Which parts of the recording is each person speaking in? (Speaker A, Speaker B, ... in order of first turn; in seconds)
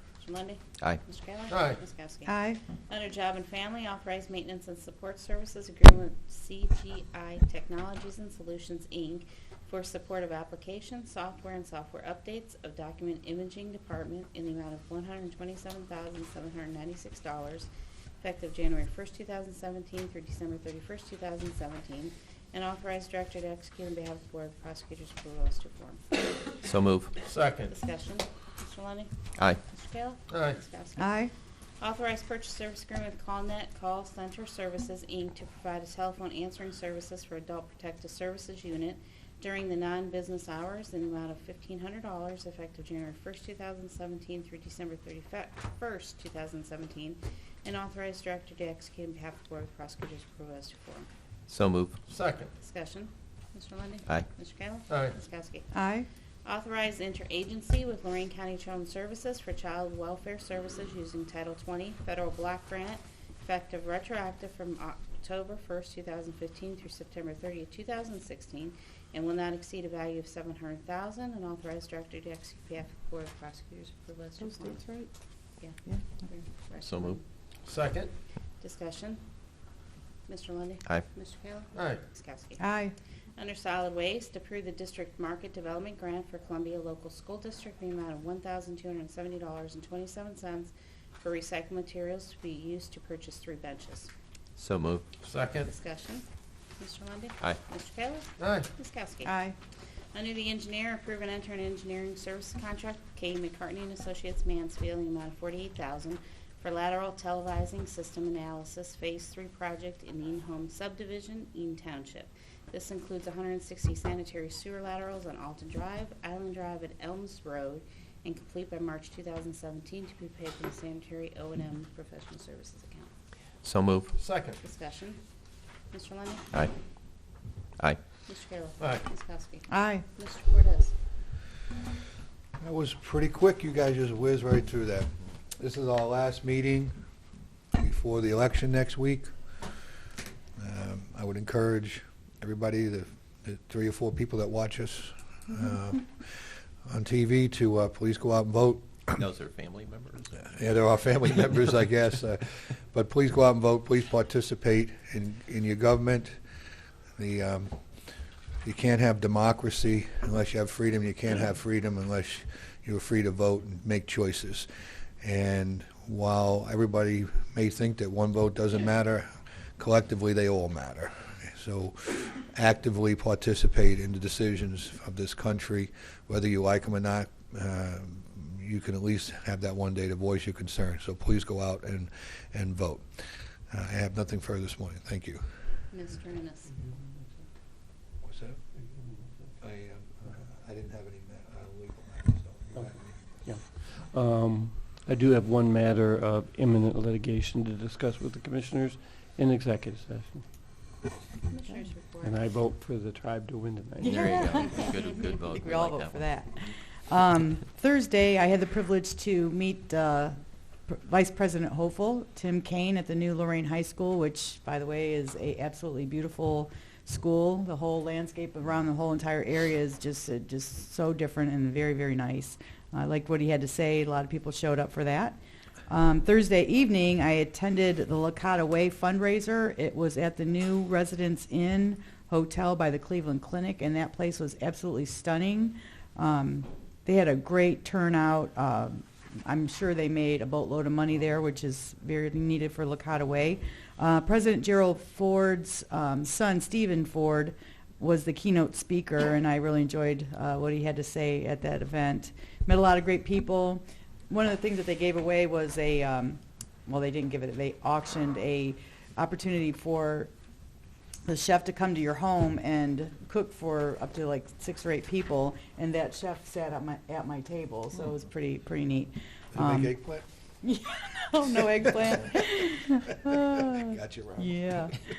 Speaker A: 0.2-17.7, 18.2-26.0, 27.7-29.1, 29.7-31.2, 31.8-51.1, 52.6-55.7, 56.4-74.8, 75.6-77.2, 78.6-79.2, 80.3-82.6, 83.4-94.1, 95.6-96.3, 96.8-99.3, 100.1-123.1, 124.6-125.2, 125.9-126.5, 128.3-130.9, 185.9-186.8, 201.5-202.5
Speaker B: 1.5-1.8, 27.2-27.7, 30.3-30.6, 52.1-52.5, 54.9-55.1, 77.7-78.1, 81.7-82.0, 95.2-95.7, 98.4-98.7, 124.2-124.6
Speaker C: 2.3-2.6, 31.0-31.3, 55.7-56.1, 74.4-75.1, 82.6-82.9, 99.2-99.6, 129.7-130.1, 204.0-210.3, 210.9-225.4, 225.9-260.3, 261.3-270.0, 270.6-275.0
Speaker D: 26.6-27.1, 51.5-52.0, 76.8-77.2, 94.6-95.0, 123.6-124.1, 149.1-150.3, 204.0-206.3
Speaker E: 132.6-136.9, 137.7-139.3, 140.6-146.1, 146.9-148.9, 150.5-156.3, 157.2-157.8, 158.6-164.7, 165.2-169.3, 169.8-183.1, 183.7-185.4, 188.2-188.6, 189.6-193.4, 269.5-270.2, 273.9-274.6
Speaker F: 193.4-200.4, 202.2-204.7